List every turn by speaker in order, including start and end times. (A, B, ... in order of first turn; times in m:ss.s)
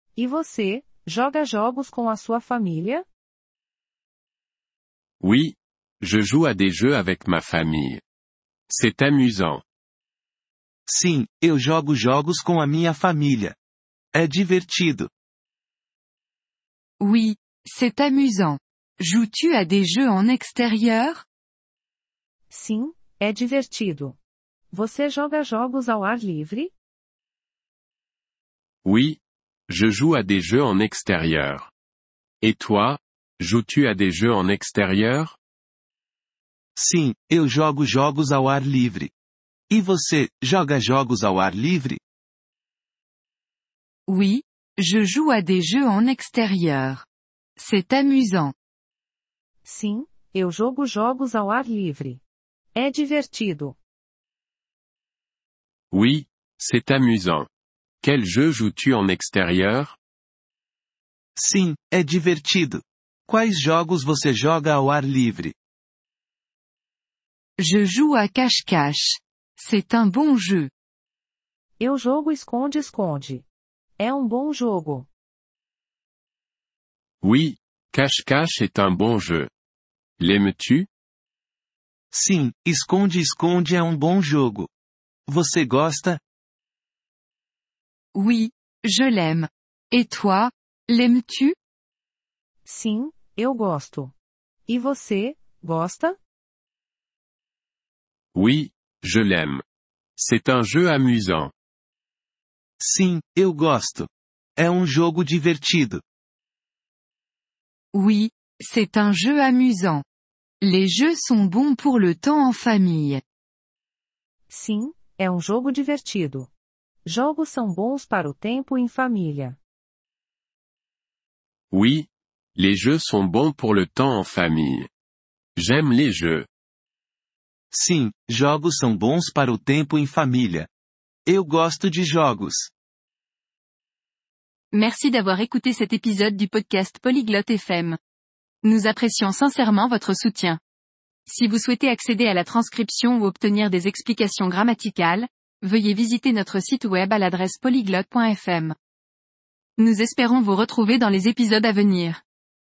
0:00.2-0:03.1 A
0:05.2-0:08.0 B
0:08.7-0:09.6 B
0:10.9-0:13.6 C
0:14.1-0:15.1 C
0:17.0-0:21.2 D
0:22.5-0:24.2 A
0:24.7-0:26.7 A
0:28.8-0:31.7 B
0:32.4-0:35.4 B
0:36.8-0:39.1 C
0:39.7-0:42.0 C
0:44.1-0:47.1 D
0:47.6-0:48.5 D
0:49.6-0:52.2 A
0:52.8-0:53.8 A
0:55.9-0:57.5 B
0:58.0-1:00.0 B
1:01.4-1:05.6 C
1:07.6-1:10.7 D
1:11.8-1:13.4 A
1:14.0-1:15.1 A
1:17.2-1:19.5 B
1:20.2-1:20.9 B
1:22.1-1:24.7 C
1:25.3-1:26.2 C
1:28.2-1:31.6 D
1:32.7-1:34.1 A
1:34.7-1:36.2 A
1:38.3-1:39.6 B
1:40.2-1:41.5 B
1:42.8-1:46.0 C
1:47.9-1:50.0 D
1:50.6-1:53.2 D
1:54.5-1:56.5 A
1:57.1-1:59.6 A
2:01.7-2:04.9 B
2:05.6-2:06.5 B
2:07.7-2:10.7 C
2:11.3-2:12.7 C
2:14.8-2:18.0 E
2:18.6-2:20.6 E
2:21.3-2:28.7 E
2:24.0-2:24.3 D
2:28.1-2:28.5 D
2:29.8-2:32.2 E